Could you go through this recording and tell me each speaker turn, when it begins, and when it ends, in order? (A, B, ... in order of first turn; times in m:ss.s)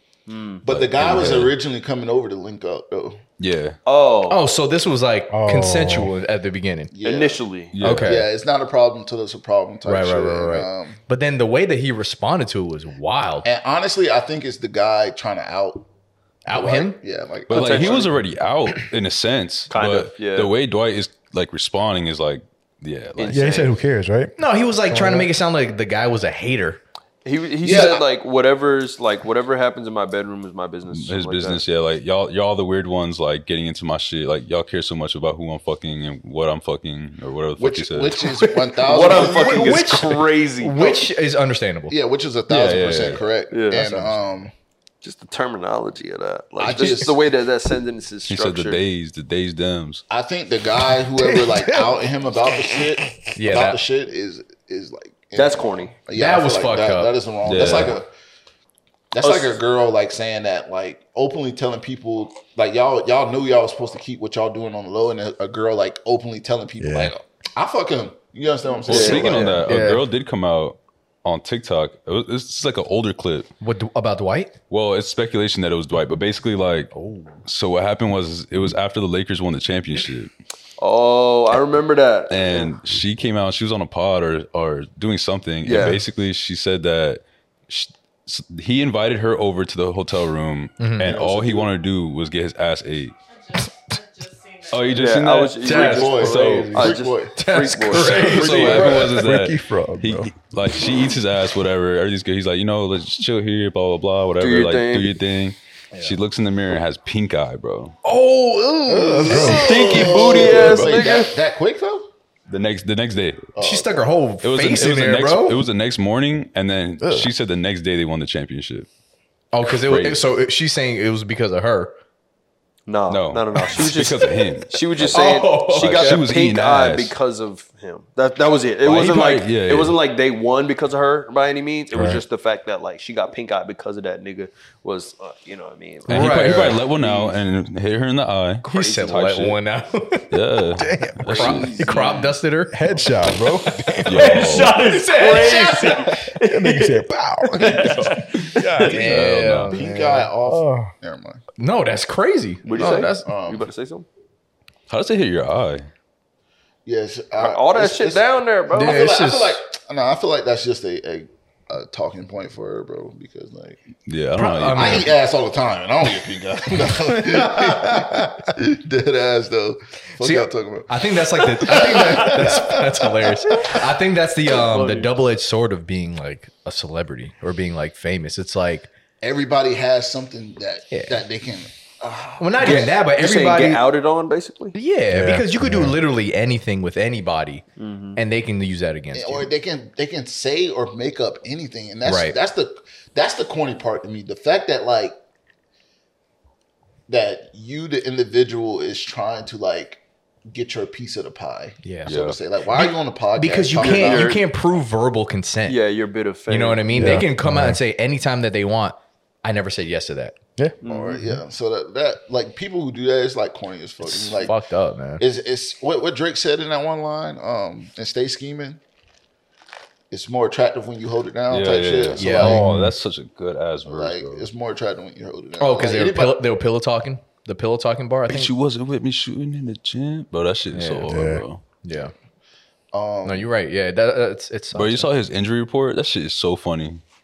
0:00.3-0:00.6 A
0:00.6-0:03.2 B
0:00.7-0:01.5 C
0:03.4-0:03.8 C
0:03.9-0:04.4 A
0:04.3-0:06.9 D
0:05.3-0:06.1 E
0:06.9-0:07.4 B
0:07.0-0:07.7 A
0:07.7-0:08.2 C
0:07.8-0:08.3 D
0:08.0-0:11.0 B
0:09.8-0:13.5 D
0:13.4-0:15.9 B
0:16.5-0:17.0 D
0:16.5-0:18.1 B
0:17.5-0:23.6 C
0:17.5-0:18.1 A
0:19.7-0:20.5 A
0:23.2-0:23.7 A
0:23.3-0:24.3 E
0:24.4-0:26.8 D
0:24.9-0:25.3 E
0:27.2-0:31.6 A
0:27.6-0:28.1 B
0:30.9-0:38.2 C
0:37.6-0:39.9 B
0:38.4-0:41.0 A
0:39.0-0:42.0 D
0:41.9-0:44.5 B
0:42.5-0:43.2 C
0:43.5-0:43.9 A
0:43.8-0:44.0 D
0:45.0-0:48.8 A
0:46.6-0:47.2 B
0:48.3-0:50.0 C
0:50.1-0:58.1 B
0:51.2-0:51.9 E
0:53.4-0:53.8 D
0:55.4-0:55.9 A
0:56.2-0:57.1 D
0:57.4-0:58.0 C
0:59.1-1:09.6 B
0:59.2-0:59.6 A
1:06.8-1:07.1 E
1:08.9-1:13.5 C
1:08.9-1:09.6 A
1:08.9-1:10.0 D
1:13.6-1:14.5 D
1:14.7-1:16.9 C
1:16.9-1:17.4 D
1:17.4-1:20.3 C
1:20.8-1:22.7 A
1:22.3-1:33.1 C
1:25.6-1:26.0 A
1:30.8-1:31.2 D
1:31.0-1:31.7 B
1:34.7-1:36.9 C
1:34.9-1:38.9 A
1:35.6-1:38.9 D
1:35.7-1:37.4 B
1:37.9-1:48.0 C
1:38.2-1:39.2 B
1:39.2-1:40.3 E
1:44.4-1:45.1 A
1:48.0-1:49.6 D
1:48.9-1:49.7 E
1:49.3-1:52.1 B
1:49.4-1:51.0 C
1:49.5-1:51.3 A
1:52.5-1:53.4 C
1:53.6-1:53.9 B
1:53.6-1:55.6 D
1:54.4-1:58.9 C
1:57.0-1:57.3 E
1:59.5-2:01.9 D
1:59.6-2:00.3 C
2:02.9-2:17.4 A
2:03.1-2:07.1 C
2:05.1-2:06.2 D
2:08.8-2:10.0 C
2:11.9-2:12.2 E
2:16.1-2:19.6 C
2:16.1-2:16.8 D
2:18.7-2:20.2 D
2:18.7-2:19.4 A
2:20.3-2:21.8 C
2:20.8-2:21.4 E
2:21.3-2:22.3 A
2:21.3-2:22.8 D
2:22.7-2:24.5 E
2:24.1-2:24.8 C
2:24.1-2:29.0 A
2:24.6-2:26.1 D
2:26.4-2:30.9 E
2:28.4-2:29.8 C
2:28.9-2:31.4 B
2:29.0-2:29.7 D
2:31.6-2:33.3 D
2:32.6-2:34.1 A
2:32.7-2:33.7 B
2:34.9-2:35.9 C
2:36.9-2:43.8 B
2:37.4-2:39.1 A
2:38.8-2:39.6 D
2:44.1-2:45.1 C
2:44.4-2:45.1 D
2:44.7-2:52.4 B
2:50.2-2:58.9 D
2:54.5-2:55.1 A
2:59.2-3:02.9 B
3:00.9-3:01.2 D
3:02.4-3:03.8 D
3:02.6-3:04.8 A
3:04.7-3:07.6 D
3:05.1-3:06.0 E
3:07.8-3:08.2 A
3:08.2-3:09.5 D
3:09.1-3:15.2 B
3:12.0-3:12.4 D
3:17.1-3:24.4 B
3:21.8-3:22.1 D
3:22.1-3:22.4 C
3:22.7-3:25.8 D
3:23.8-3:24.4 A
3:25.7-3:27.2 A
3:26.5-3:30.4 D
3:26.9-3:27.8 E
3:30.6-3:31.4 E
3:30.8-3:31.2 A
3:30.8-3:34.6 B
3:34.0-3:35.2 D
3:35.2-3:38.8 B
3:40.1-3:42.6 B
3:41.5-3:44.5 C
3:42.2-3:42.6 D
3:42.4-3:43.0 E
3:43.8-3:46.4 B
3:45.6-3:48.5 D
3:48.3-3:51.6 C
3:50.7-3:51.1 D
3:51.1-3:51.4 E
3:51.8-3:52.1 D
3:52.9-3:53.5 B
3:53.2-3:55.1 D
3:54.7-3:57.0 C